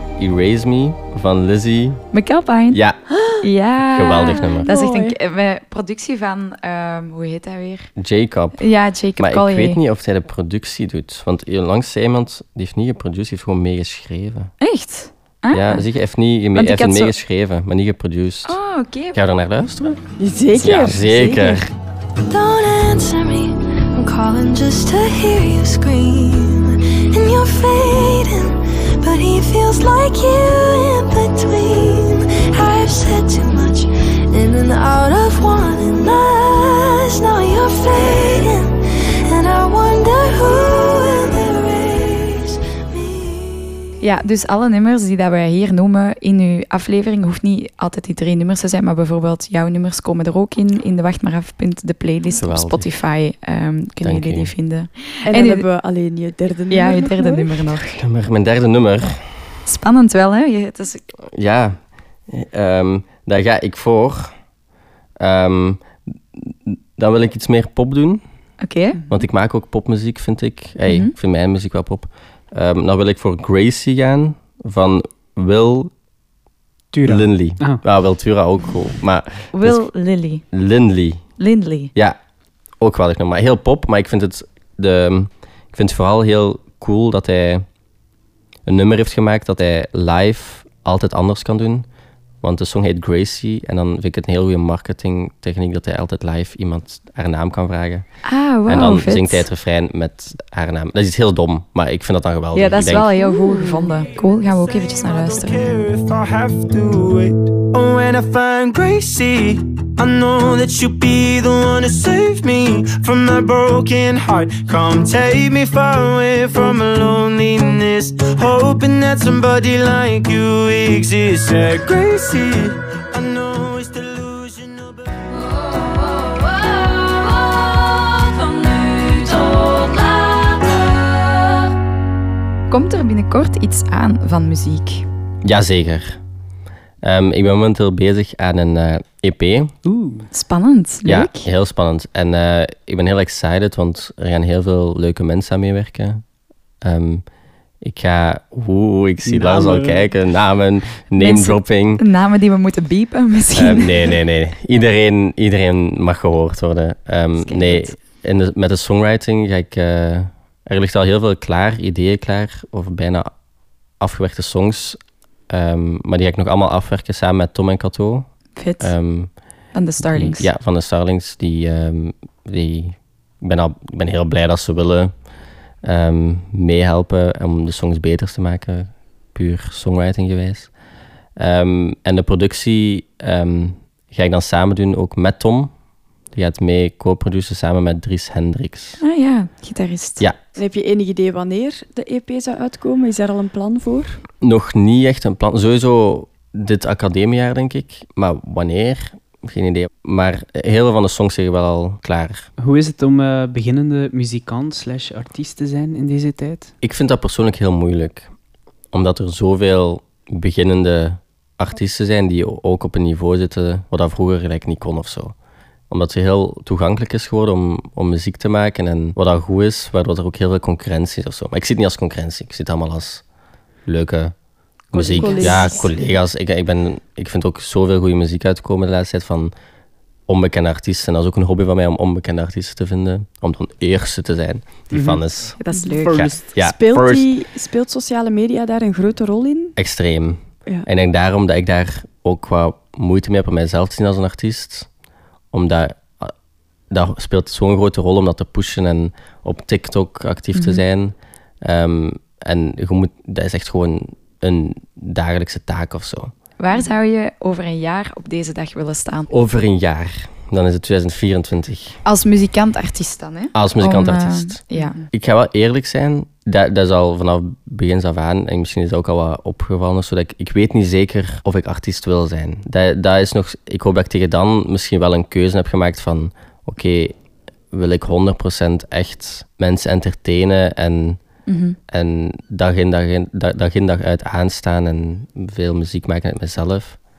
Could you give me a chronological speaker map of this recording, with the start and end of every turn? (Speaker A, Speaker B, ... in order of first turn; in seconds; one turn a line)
Speaker A: 0.2-2.0
Speaker B: 2.1-2.8
Speaker A: 2.7-3.0
Speaker C: 3.1-3.5
Speaker B: 3.4-7.9
Speaker A: 3.9-4.7
Speaker C: 4.6-5.2
Speaker A: 8.0-8.6
Speaker B: 8.6-9.8
Speaker A: 9.2-14.5
Speaker B: 14.6-15.9
Speaker A: 15.5-18.6
Speaker B: 16.5-17.1
Speaker B: 18.4-19.2
Speaker A: 19.1-20.0
Speaker C: 20.2-21.6
Speaker A: 20.6-21.7
Speaker D: 22.3-43.8
Speaker B: 44.0-55.6
Speaker A: 52.3-52.9
Speaker A: 54.0-54.5
Speaker C: 55.2-57.6
Speaker B: 56.7-58.0
Speaker A: 58.0-59.2
Speaker B: 59.6-61.0
Speaker A: 61.2-64.3
Speaker A: 65.2-68.2
Speaker B: 68.6-69.0
Speaker A: 69.1-75.9
Speaker B: 70.9-71.1
Speaker E: 76.9-77.8
Speaker A: 77.0-79.9
Speaker B: 79.5-80.4
Speaker A: 80.5-81.3
Speaker B: 81.4-81.9
Speaker A: 82.8-87.7
Speaker A: 88.7-91.9
Speaker A: 92.4-98.1
Speaker B: 98.2-99.5
Speaker A: 98.6-103.1
Speaker B: 102.5-105.7
Speaker C: 103.2-103.9
Speaker F: 104.6-125.1
Speaker D: 126.0-131.0
Speaker B: 132.7-135.1
Speaker A: 135.4-136.2
Speaker A: 137.0-139.7
Speaker E: 139.8-140.3
Speaker B: 140.3-141.5
Speaker A: 141.1-146.2
Speaker A: 146.8-147.2
Speaker A: 147.8-152.0
Speaker E: 149.2-150.1
Speaker B: 151.2-154.1
Speaker A: 153.6-163.3
Speaker B: 157.4-157.9
Speaker A: 164.0-168.3
Speaker B: 168.6-168.9
Speaker A: 168.8-169.3
Speaker B: 169.7-170.5
Speaker A: 170.0-175.1
Speaker A: 175.8-180.7
Speaker A: 181.4-185.7
Speaker A: 186.3-189.0
Speaker B: 189.0-190.2
Speaker C: 190.6-194.2
Speaker A: 194.4-202.5
Speaker E: 202.6-206.7
Speaker A: 206.8-208.3
Speaker A: 208.9-215.3
Speaker A: 215.9-223.2
Speaker A: 223.9-224.3
Speaker A: 224.9-229.5
Speaker B: 224.9-225.9
Speaker C: 225.1-226.0
Speaker A: 230.3-235.6
Speaker E: 234.9-235.2
Speaker B: 235.6-236.4
Speaker C: 235.7-236.0
Speaker E: 236.0-236.4
Speaker A: 236.1-237.3
Speaker C: 236.6-239.8
Speaker A: 239.8-244.9
Speaker A: 245.5-246.3
Speaker A: 246.9-256.3
Speaker B: 250.6-250.8
Speaker B: 256.6-259.3
Speaker A: 259.3-262.0
Speaker B: 262.1-265.0
Speaker A: 263.5-277.1
Speaker C: 264.7-265.1
Speaker A: 277.7-281.2
Speaker B: 281.5-281.8
Speaker A: 281.9-287.0